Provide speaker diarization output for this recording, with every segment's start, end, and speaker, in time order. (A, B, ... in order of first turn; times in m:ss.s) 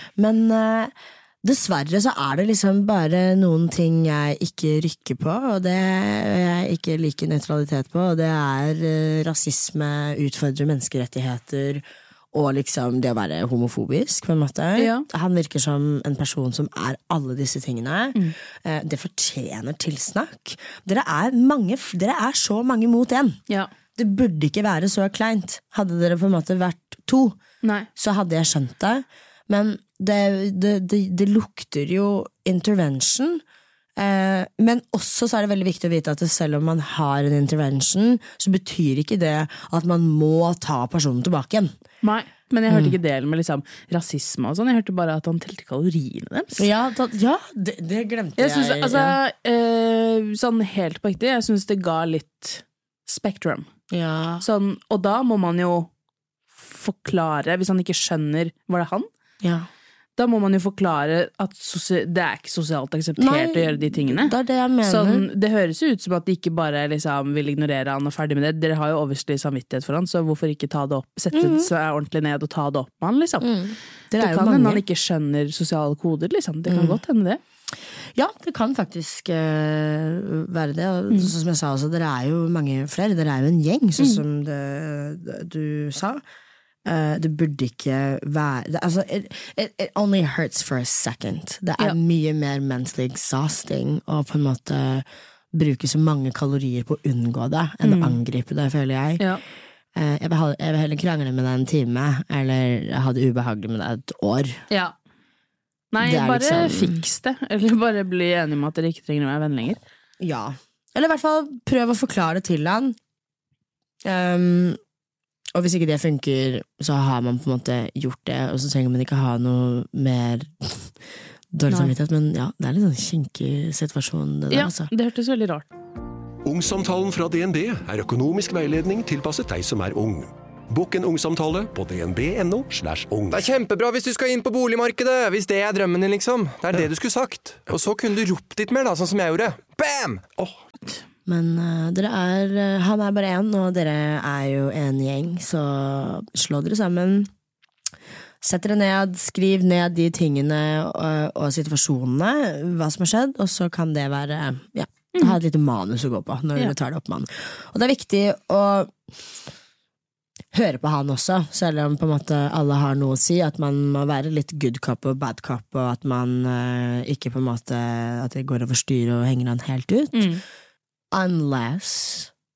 0:00.2-0:23.4 A
0:14.8-0:15.0 B
0:24.0-0:27.4 A
0:27.6-0:27.9 B
0:28.0-0:33.4 A
0:34.0-0:41.7 A
0:42.0-0:46.7 B
0:42.7-0:43.0 A
0:46.6-0:49.2 A
0:48.4-0:53.7 B
0:53.9-0:54.4 A
0:54.4-0:55.9 B
0:56.5-0:59.1 B
0:59.4-0:59.7 A
1:00.2-1:13.6 B
1:03.2-1:05.2 A
1:11.3-1:11.7 A
1:13.4-1:14.8 A
1:14.2-1:17.4 B
1:16.7-1:17.0 A
1:18.1-1:26.2 A
1:26.8-1:39.2 A
1:37.8-1:38.2 B
1:39.9-1:44.6 A
1:45.9-1:49.8 B
1:46.0-1:47.0 A
1:50.2-1:53.0 A
1:54.0-1:54.8 A
1:55.5-2:00.9 A
2:01.5-2:04.9 A
2:01.7-2:01.9 B
2:04.5-2:05.7 B
2:06.4-2:13.5 C
2:13.3-2:20.5 D
2:21.2-2:27.3 A
2:28.4-2:39.0 A
2:40.5-2:50.3 A
2:50.1-2:50.4 B
2:51.1-2:52.3 A